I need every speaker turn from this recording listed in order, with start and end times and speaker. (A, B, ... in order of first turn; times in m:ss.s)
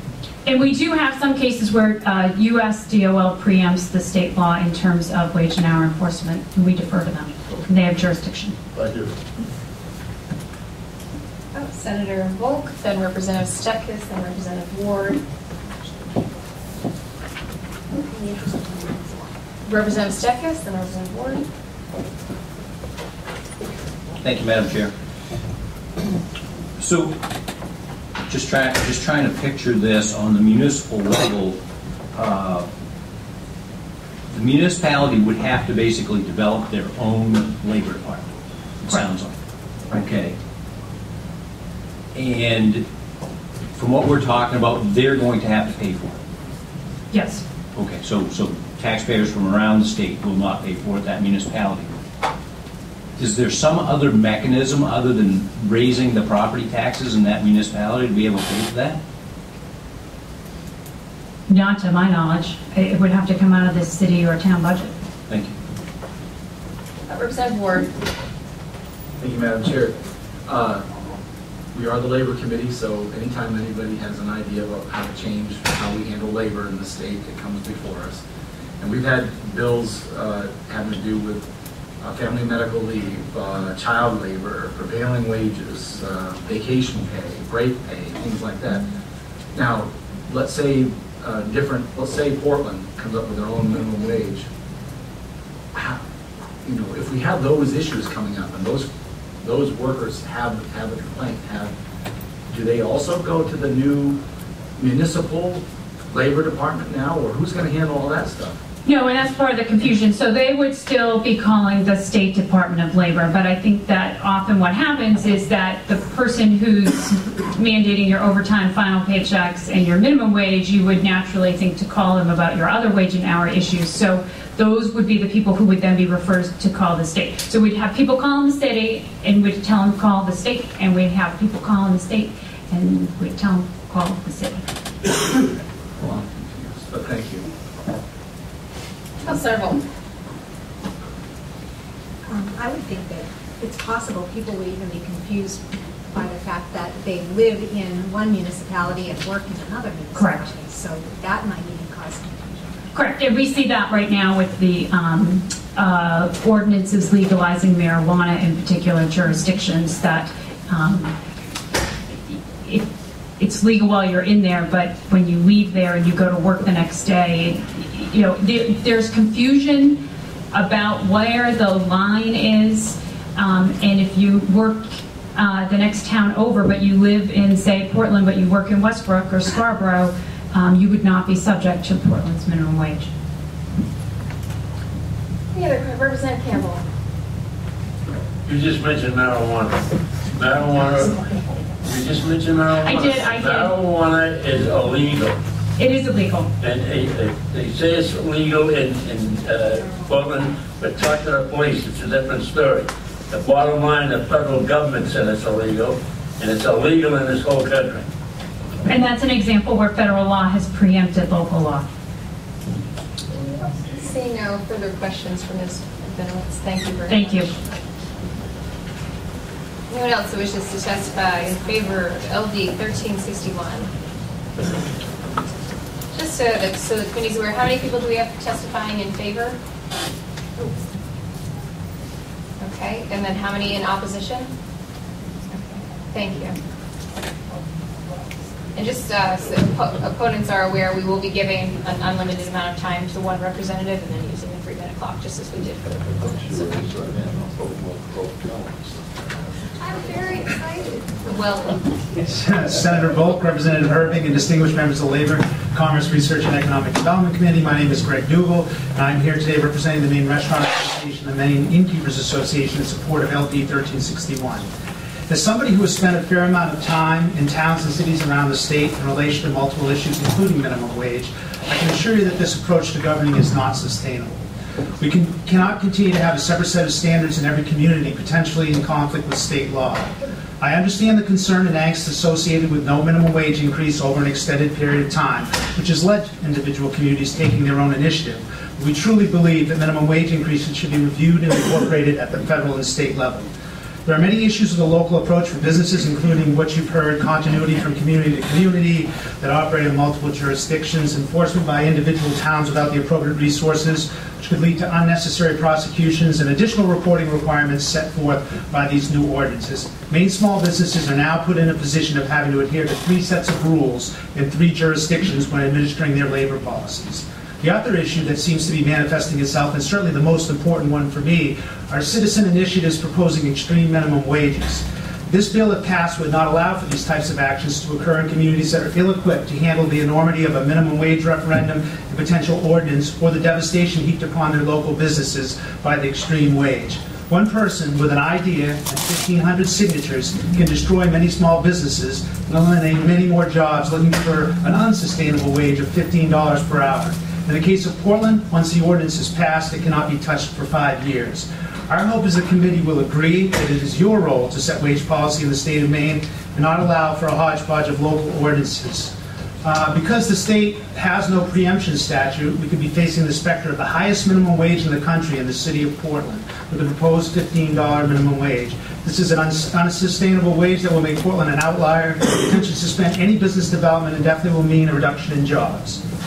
0:00.4-0:08.6 A
0:08.7-0:09.1 B
0:11.5-0:15.2 C
0:18.1-0:19.2 D
0:19.7-0:21.5 C
0:24.2-0:24.9 E
0:26.8-0:27.2 E
0:28.3-0:31.6 E
0:32.1-0:32.7 E
0:34.3-0:39.3 E
0:39.9-0:40.4 E
0:42.2-0:42.8 E
0:43.8-0:46.2 E
0:47.1-0:47.4 A
0:47.8-0:52.0 E
0:53.2-0:59.0 E
1:01.5-1:05.0 A
1:05.3-1:05.6 E
1:07.1-1:07.9 C
1:09.2-1:10.8 F
1:11.7-1:18.2 F
1:18.8-1:21.5 F
1:22.0-1:28.9 F
1:29.5-1:34.5 F
1:35.7-1:36.0 F
1:36.6-1:38.9 F
1:39.4-1:41.8 F
1:42.5-1:44.2 F
1:44.8-1:48.6 F
1:48.8-2:14.6 A
2:16.0-2:17.5 F
2:19.2-2:19.8 C
2:22.3-2:32.9 D
2:30.2-2:30.5 A
2:32.9-2:41.1 A
2:43.4-3:03.1 A
3:05.5-3:06.8 C
3:08.5-3:15.4 G
3:12.8-3:13.7 A
3:15.8-3:16.5 A
3:16.6-3:28.0 G
3:28.9-3:31.9 A
3:33.4-3:37.6 C
3:37.1-3:37.5 A
3:39.9-3:43.9 C
3:46.1-3:49.6 C
3:52.6-3:54.5 C
3:55.5-3:56.6 C
3:58.8-4:06.7 C
4:06.2-4:09.7 B
4:09.8-4:11.9 C
4:12.2-4:24.7 H
4:25.3-4:34.4 H
4:35.0-4:53.5 H
4:54.0-6:16.0 H